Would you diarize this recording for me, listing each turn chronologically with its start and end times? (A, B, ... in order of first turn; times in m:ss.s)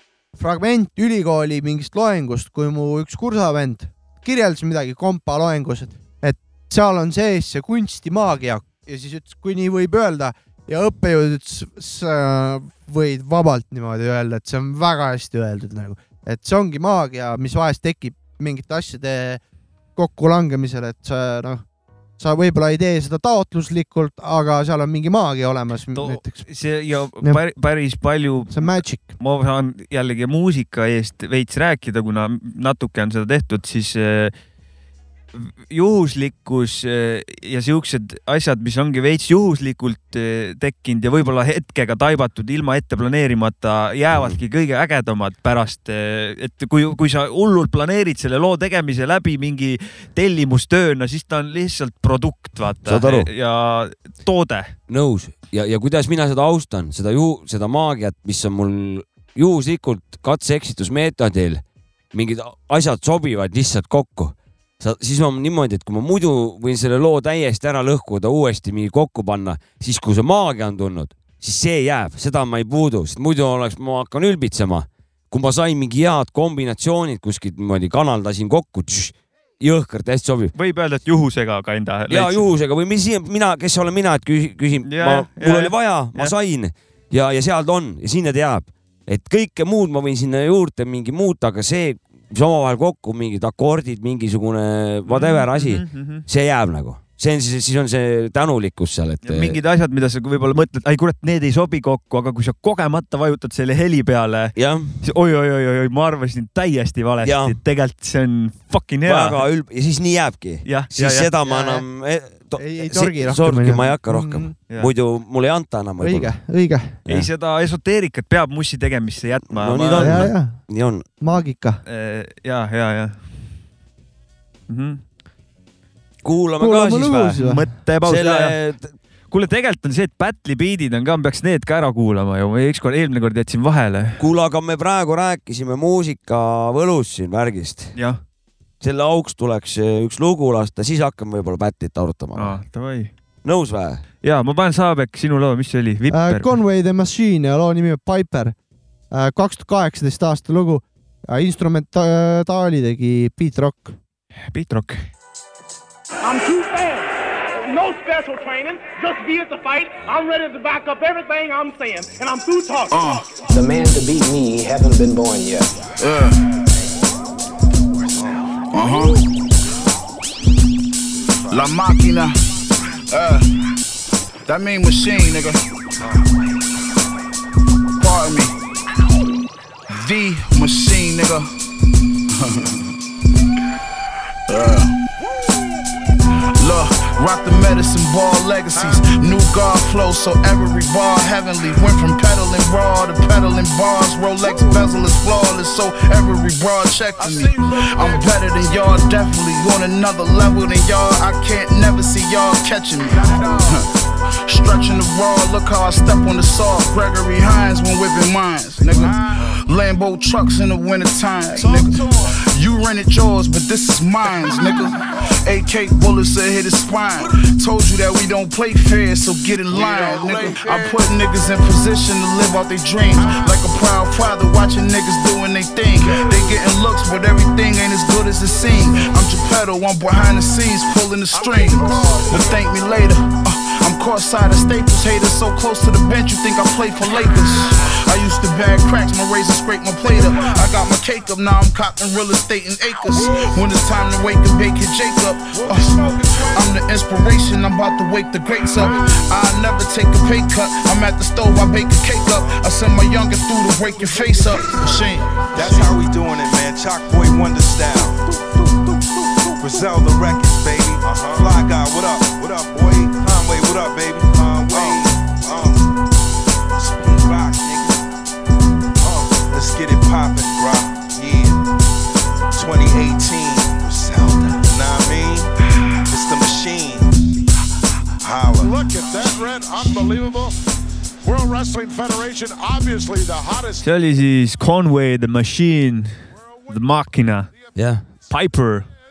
0:00.4-0:19.4 A
0:20.0-0:21.6 A
0:22.2-0:26.4 A
0:25.9-0:34.3 B
0:28.5-0:29.1 A
0:35.3-0:54.7 B
0:44.1-0:44.4 C
0:52.8-0:53.3 C
0:54.9-1:20.5 C
1:20.6-1:22.4 B
1:22.1-1:39.6 C
1:24.8-1:26.3 B
1:35.1-1:36.2 B
1:39.2-1:49.4 B
1:44.6-1:45.0 C
1:47.2-1:47.6 C
1:49.0-1:56.3 C
1:50.6-1:51.3 B
1:51.4-1:51.8 A
1:52.6-1:54.5 A
1:56.0-1:57.0 A
1:57.1-2:00.3 B
1:59.5-2:01.0 C
2:00.0-2:00.6 A
2:01.2-2:01.8 A
2:01.8-2:03.3 B
2:04.7-2:05.0 B
2:06.2-2:07.4 C
2:06.6-2:07.7 A
2:07.3-2:08.5 B
2:08.0-2:08.9 C
2:09.3-2:14.2 B
2:14.2-2:17.9 C
2:18.8-2:22.6 C
2:22.3-2:23.1 B
2:23.4-2:24.0 C
2:24.2-2:26.5 B
2:26.1-2:28.5 A
2:29.1-2:34.0 A
2:34.5-2:35.1 B
2:36.2-2:43.0 D
2:42.9-2:43.2 E
2:43.5-2:45.7 F
2:46.0-2:46.4 E
2:48.7-2:49.2 E
2:51.5-2:52.4 E
2:53.1-2:53.5 E
2:54.5-2:55.6 E
2:58.0-2:58.5 E
2:59.9-3:01.5 E
3:02.3-3:02.7 E
3:04.5-3:05.0 E
3:06.6-3:23.8 E
3:17.2-3:18.2 G
3:23.2-3:23.8 G
3:24.5-3:32.0 E
3:31.6-3:31.8 H
3:32.5-4:15.8 E
3:39.7-3:40.9 H
3:51.3-3:52.5 G
4:05.7-4:06.6 G
4:14.6-4:14.9 H
4:15.5-4:18.2 H
4:19.6-4:25.9 H
4:24.7-4:25.0 G
4:26.7-4:28.0 H
4:29.0-4:31.6 H
4:32.5-4:35.5 H
4:36.1-4:37.3 H
4:38.2-4:38.9 H
4:38.6-4:40.5 G
4:41.2-4:43.8 G
4:43.8-4:47.5 B
4:47.7-4:48.0 C
4:48.3-4:48.9 B